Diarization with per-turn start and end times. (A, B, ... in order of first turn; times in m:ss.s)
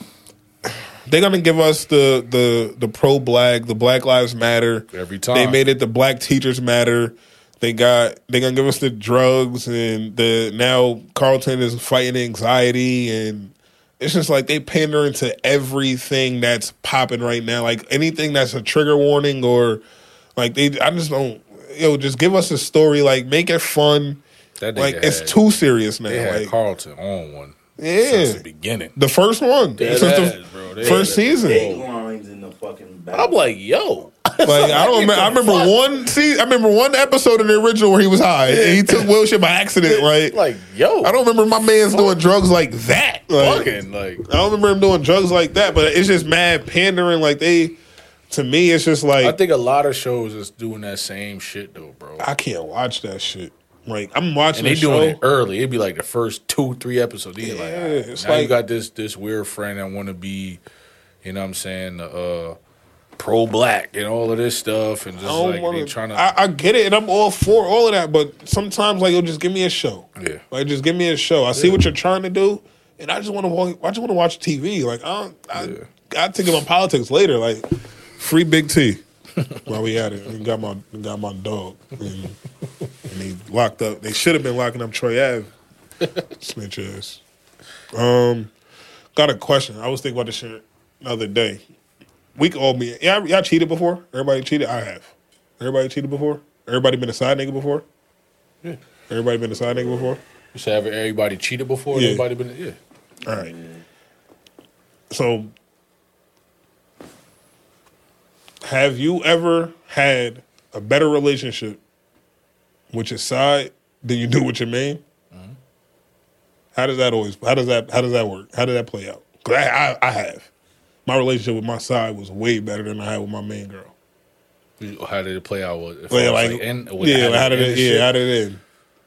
0:00.7-0:19.8 A
0:04.9-0:05.6 B
0:20.4-0:24.2 A
0:24.6-0:25.4 B
0:24.8-0:26.5 A
0:26.0-0:28.9 B
0:27.8-0:28.4 A
0:29.0-0:31.7 A
0:29.8-0:31.8 B
0:30.8-0:33.4 C
0:33.1-0:35.7 B
0:34.4-0:40.4 A
0:38.4-0:39.1 B
0:39.8-0:41.2 B
0:41.0-0:43.7 A
0:41.9-0:42.1 B
0:43.4-0:44.2 B
0:44.2-0:47.8 A
0:48.3-0:49.4 A
0:49.2-0:52.2 B
0:52.2-0:55.2 A
0:54.5-1:00.6 B
0:57.4-0:58.6 A
1:01.2-1:02.6 B
1:03.2-1:06.3 B
1:05.2-1:17.7 A
1:10.2-1:10.4 B
1:15.5-1:15.9 B
1:18.2-1:19.0 A
1:19.6-1:22.4 A
1:23.0-1:25.5 A
1:26.4-1:27.2 A
1:27.9-1:28.5 A
1:29.1-1:31.6 A
1:32.3-1:37.8 A
1:39.1-1:40.2 A
1:40.5-1:42.8 B
1:41.9-1:42.2 A
1:43.2-1:43.5 A
1:43.3-1:43.8 C
1:45.1-1:45.5 A
1:48.6-1:51.8 A
1:52.9-1:55.0 A
1:56.7-2:00.5 A
2:01.0-2:03.9 A
2:04.8-2:08.1 B
2:06.1-2:08.6 A